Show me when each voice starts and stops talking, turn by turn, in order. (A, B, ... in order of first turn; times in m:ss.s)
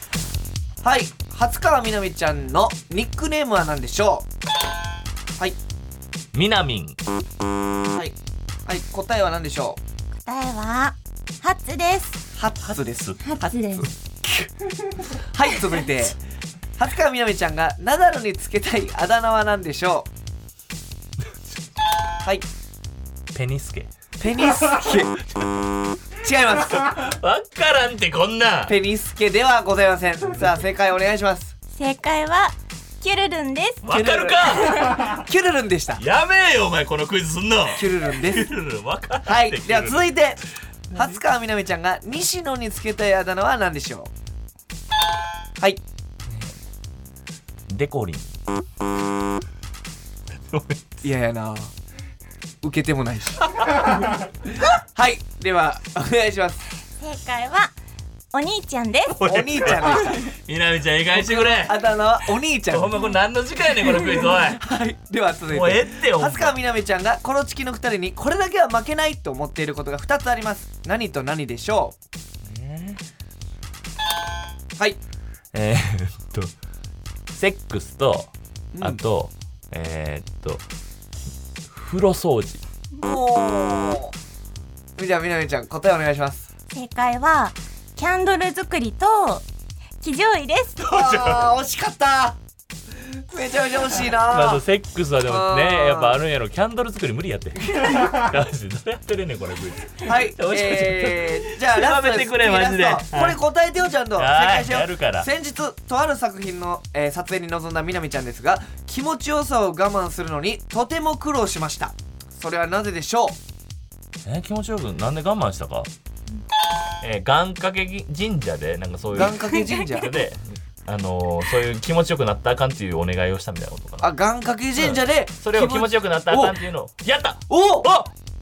0:00.8-0:04.3 A
0:06.3-0:07.0 B
0:08.7-0:09.8 A
0:10.2-0:12.2 C
0:12.4-0:16.2 A
0:12.6-0:13.2 B
0:13.2-0:13.9 C
0:16.8-0:20.1 A
0:23.3-0:23.9 B
0:24.2-0:25.2 A
0:26.2-0:27.1 A
0:26.7-0:28.8 B
0:28.7-0:31.6 A
0:31.7-0:33.9 C
0:33.8-0:35.2 B
0:33.9-0:36.0 A
0:36.0-0:40.2 B
0:37.7-0:38.5 A
0:39.2-0:44.1 A
0:40.9-0:41.2 B
0:46.3-0:46.5 B
0:47.7-0:48.3 B
0:50.3-0:51.0 B
0:51.0-0:51.7 A
0:52.6-0:53.6 A
0:53.6-0:54.0 B
0:55.0-0:56.7 A
0:57.0-0:57.7 C
0:58.3-0:59.2 C
0:59.1-1:01.8 B
0:59.2-1:00.3 A
1:01.1-1:03.0 A
1:02.7-1:04.6 B
1:04.3-1:12.0 A
1:05.5-1:06.6 B
1:12.4-1:13.0 B
1:15.5-1:16.5 B
1:17.3-1:20.6 B
1:18.7-1:19.0 A
1:21.7-1:22.6 B
1:23.0-1:24.1 A
1:25.0-1:26.5 A
1:26.7-1:29.4 C
1:30.0-1:30.8 C
1:30.8-1:31.5 B
1:30.9-1:32.4 A
1:33.3-1:34.6 A
1:34.3-1:43.4 B
1:35.3-1:36.2 A
1:40.0-1:53.4 A
1:44.2-1:45.3 B
1:54.2-1:55.9 B
1:57.0-2:04.1 B
1:59.1-2:00.2 A
2:04.0-2:06.6 A
2:04.8-2:08.1 B
2:07.5-2:07.9 A